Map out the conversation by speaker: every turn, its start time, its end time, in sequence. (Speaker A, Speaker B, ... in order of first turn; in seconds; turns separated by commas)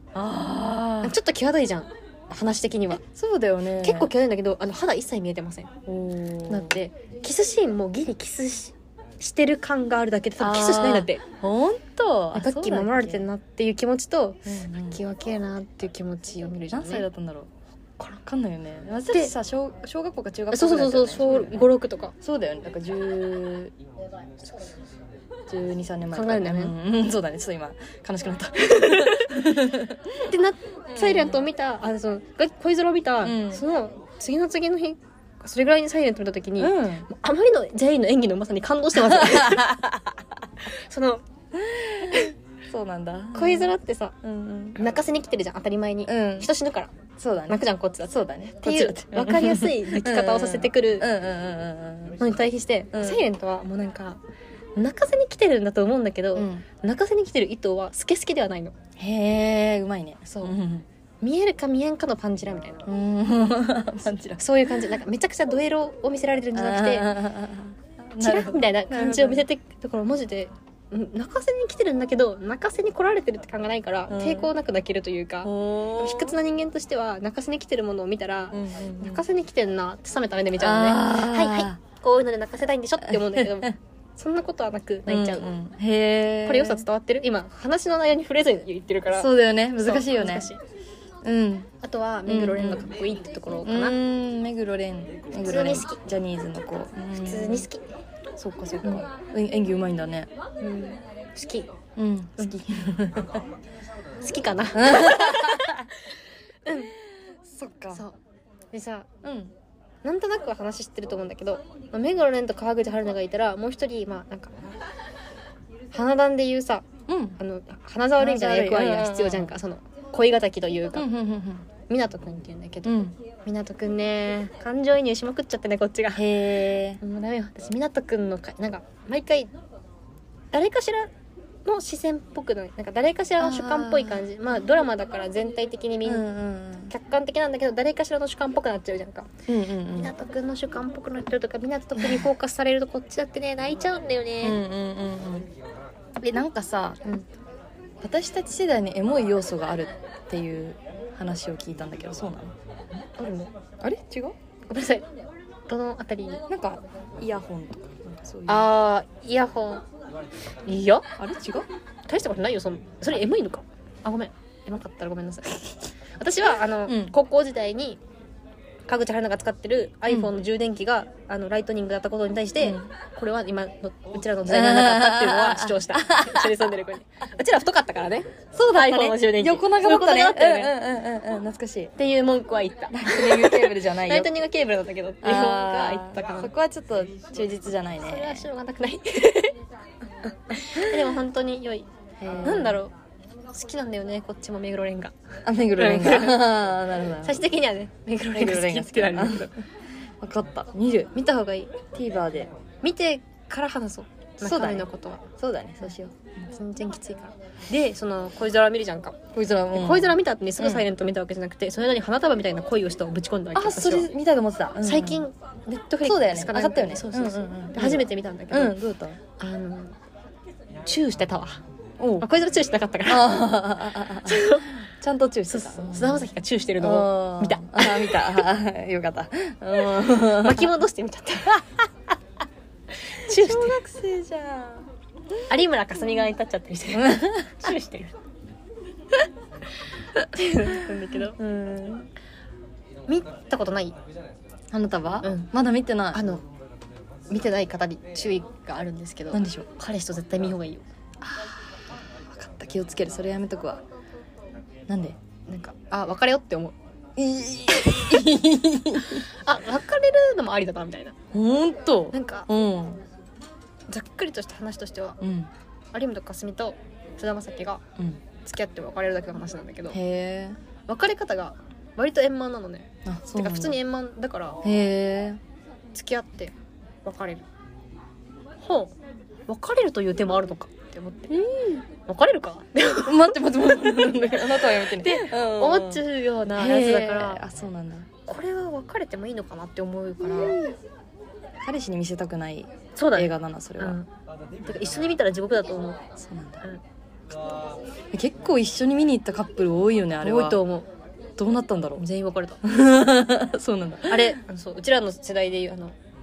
Speaker A: 0.1-1.1, Speaker B: 1.0-3.0, Speaker A: 3.1-4.1, Speaker B: 3.8-5.7, Speaker A: 5.9-6.8, Speaker B: 6.5-11.2, Speaker A: 10.4-13.3, Speaker B: 12.3-17.1, Speaker A: 14.4-15.0, Speaker A: 16.7-17.5, Speaker A: 18.2-21.7, Speaker B: 20.5-22.1, Speaker A: 22.2-23.8, Speaker A: 25.5-30.3, Speaker B: 26.1-26.8, Speaker B: 28.6-29.5, Speaker B: 30.2-39.9, Speaker A: 30.9-31.4, Speaker A: 33.2-33.6, Speaker A: 36.6-37.1, Speaker A: 39.0-40.1, Speaker B: 40.6-41.2, Speaker A: 41.5-44.8, Speaker B: 42.0-42.3, Speaker B: 43.3-44.2, Speaker B: 44.8-46.9, Speaker A: 46.1-46.5, Speaker A: 47.2-52.2, Speaker B: 47.5-51.1, Speaker B: 52.2-54.2, Speaker A: 52.9-53.2, Speaker B: 54.8-58.8, Speaker A: 56.4-56.7, Speaker A: 59.0-60.9, Speaker B: 60.3-60.6, Speaker B: 61.2-62.9, Speaker A: 62.9-64.4, Speaker B: 64.4-67.2, Speaker A: 66.5-69.5, Speaker B: 68.2-85.5, Speaker A: 74.1-74.5, Speaker A: 75.4-76.4, Speaker A: 78.5-79.2, Speaker A: 80.6-81.8, Speaker A: 83.0-83.8, Speaker A: 85.1-86.8, Speaker B: 86.4-90.6, Speaker A: 89.1-90.5, Speaker A: 91.2-91.7, Speaker B: 91.8-94.0, Speaker A: 92.3-92.9, Speaker A: 93.6-97.7, Speaker B: 95.4-96.0, Speaker B: 97.2-97.9, Speaker A: 98.4-100.3, Speaker B: 100.6-101.7, Speaker A: 102.0-103.4, Speaker B: 104.2-106.9, Speaker A: 104.7-105.9, Speaker A: 107.4-108.0, Speaker B: 108.7-109.1, Speaker A: 109.2-109.5, Speaker B: 110.0-114.6, Speaker B: 115.9-116.9, Speaker A: 117.1-117.4, Speaker B: 117.4-121.1, Speaker A: 118.2-119.5, Speaker A: 121.0-121.7, Speaker B: 121.9-126.5, Speaker A: 122.8-123.2, Speaker A: 126.1-127.0, Speaker B: 127.0-129.5, Speaker B: 130.5-131.1, Speaker B: 131.7-136.3, Speaker A: 133.4-134.3, Speaker A: 136.1-136.9, Speaker B: 136.9-139.3, Speaker A: 139.5-140.1, Speaker B: 139.9-144.6, Speaker A: 144.4-145.5, Speaker A: 146.2-147.1, Speaker A: 148.0-152.6, Speaker B: 153.2-153.5, Speaker A: 153.8-154.4, Speaker B: 154.7-155.1, Speaker B: 155.7-156.4, Speaker A: 156.5-158.7, Speaker B: 158.5-159.8, Speaker B: 160.7-161.1, Speaker A: 161.2-161.7, Speaker B: 162.1-168.0, Speaker A: 166.9-167.1, Speaker B: 168.9-180.8, Speaker A: 172.6-172.9, Speaker A: 174.5-176.7, Speaker A: 178.5-181.9, Speaker B: 182.0-186.5, Speaker A: 182.9-184.3, Speaker A: 185.2-188.5, Speaker B: 188.1-189.6, Speaker B: 190.5-191.9, Speaker A: 190.8-191.0, Speaker A: 192.2-192.8, Speaker B: 192.4-192.9, Speaker B: 193.5-195.2, Speaker A: 195.4-197.5, Speaker B: 195.8-196.5, Speaker B: 197.2-199.6, Speaker A: 198.3-199.5, Speaker A: 200.2-201.1, Speaker B: 201.2-201.8, Speaker A: 201.9-202.5, Speaker B: 202.8-205.2, Speaker A: 204.4-206.5, Speaker B: 206.5-214.1, Speaker A: 209.3-210.9, Speaker A: 213.5-215.3, Speaker B: 214.8-218.8, Speaker A: 216.0-219.2, Speaker B: 219.4-220.0, Speaker B: 220.8-221.6, Speaker A: 222.0-222.3, Speaker B: 222.2-223.5, Speaker A: 223.1-226.2, Speaker B: 224.2-224.8, Speaker B: 225.5-228.4, Speaker A: 226.8-230.7, Speaker B: 230.1-231.7, Speaker B: 233.1-233.8, Speaker A: 233.2-234.9, Speaker B: 235.5-238.2, Speaker A: 237.0-237.5, Speaker B: 240.2-242.1, Speaker B: 243.1-244.0, Speaker A: 244.7-246.4, Speaker B: 245.2-245.5, Speaker B: 246.1-246.4, Speaker B: 247.3-250.9, Speaker A: 249.3-249.7, Speaker A: 251.2-253.8, Speaker A: 254.9-255.2, Speaker B: 255.5-256.8, Speaker A: 257.2-259.3, Speaker B: 259.0-261.2, Speaker A: 261.3-263.0, Speaker B: 262.1-262.5, Speaker B: 263.9-265.2, Speaker A: 265.2-265.5, Speaker B: 265.9-267.8, Speaker B: 268.4-270.0, Speaker A: 269.9-270.6, Speaker B: 270.9-274.6, Speaker A: 273.1-273.8, Speaker A: 274.6-275.4, Speaker B: 275.9-277.4, Speaker B: 278.6-278.9, Speaker B: 279.5-281.3, Speaker A: 281.3-281.9, Speaker B: 282.1-283.4, Speaker A: 283.0-286.0, Speaker B: 284.1-287.4, Speaker A: 286.6-288.1, Speaker B: 288.3-290.6, Speaker A: 290.2-290.8, Speaker A: 291.6-294.0, Speaker B: 293.0-294.1, Speaker B: 294.6-296.1, Speaker A: 296.2-296.6, Speaker A: 298.1-300.6, Speaker B: 300.2-300.9, Speaker A: 301.4-302.0, Speaker B: 302.0-302.6, Speaker A: 302.6-304.4, Speaker B: 304.1-306.0